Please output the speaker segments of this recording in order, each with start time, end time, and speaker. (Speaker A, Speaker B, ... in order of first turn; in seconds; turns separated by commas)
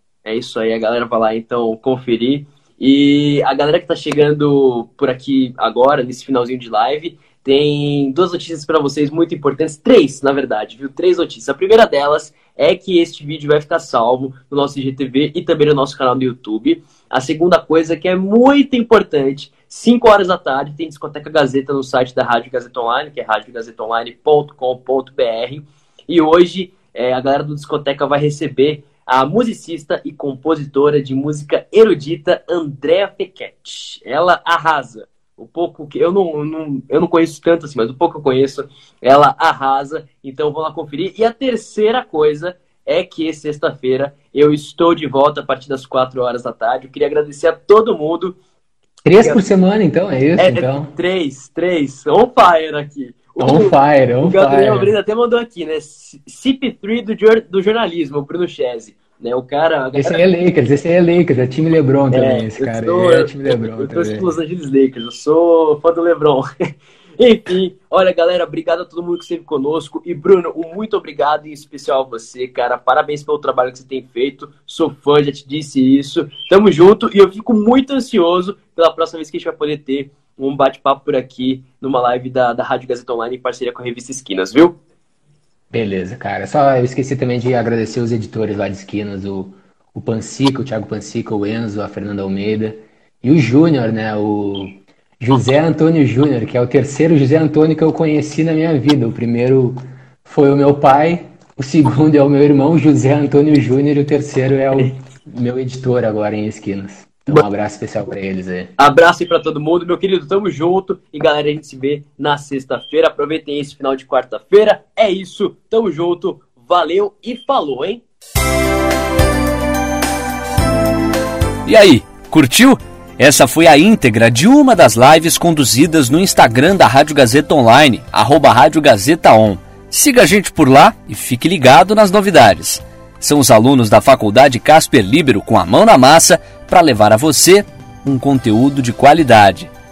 Speaker A: 0.2-48.4, Speaker B: 49.0-50.9, Speaker A: 50.4-60.2, Speaker B: 53.4-54.9, Speaker B: 60.0-64.3, Speaker A: 62.1-84.8, Speaker B: 85.7-108.7, Speaker A: 108.8-118.0, Speaker C: 121.7-139.7